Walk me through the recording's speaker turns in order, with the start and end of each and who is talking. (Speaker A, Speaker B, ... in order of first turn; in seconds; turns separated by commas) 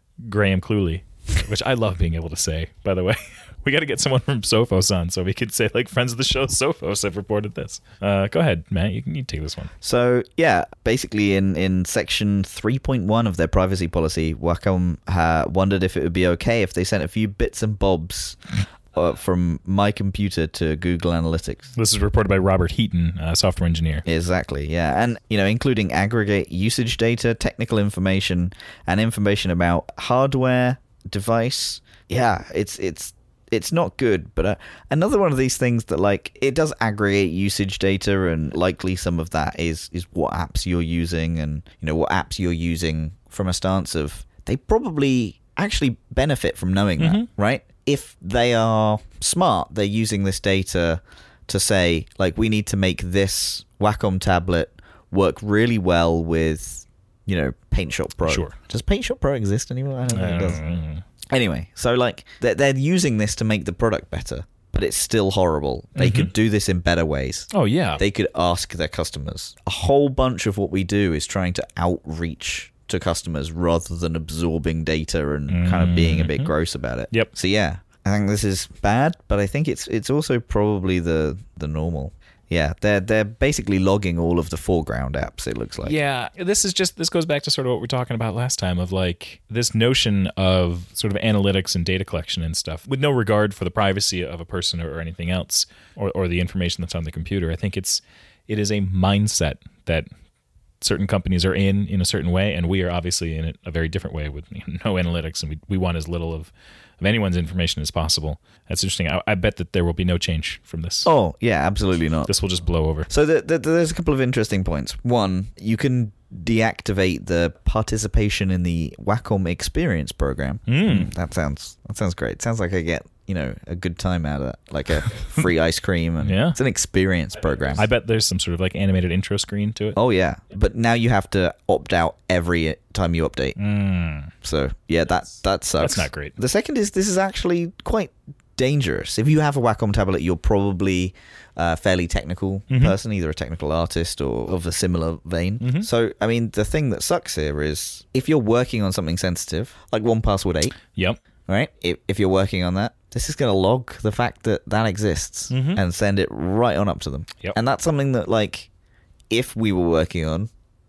Speaker A: 0.2-9.7, Speaker B: 9.8-18.4, Speaker B: 18.9-21.7, Speaker A: 21.8-24.0, Speaker B: 24.0-60.6, Speaker A: 47.0-47.3, Speaker A: 58.2-58.5, Speaker A: 60.1-61.0, Speaker B: 61.3-86.0, Speaker A: 66.0-66.3, Speaker A: 67.5-68.0, Speaker A: 75.5-76.5, Speaker A: 85.8-100.1, Speaker A: 100.8-111.1, Speaker B: 111.0-112.3, Speaker A: 112.3-113.1, Speaker B: 113.1-127.8, Speaker A: 120.7-121.1, Speaker A: 126.2-126.6, Speaker A: 127.8-130.0, Speaker B: 129.9-133.6, Speaker A: 133.6-134.3, Speaker B: 134.4-150.7, Speaker A: 135.8-136.3, Speaker A: 142.7-142.9, Speaker A: 145.6-145.9, Speaker B: 151.5-158.7, Speaker A: 155.5-155.8, Speaker B: 159.3-160.5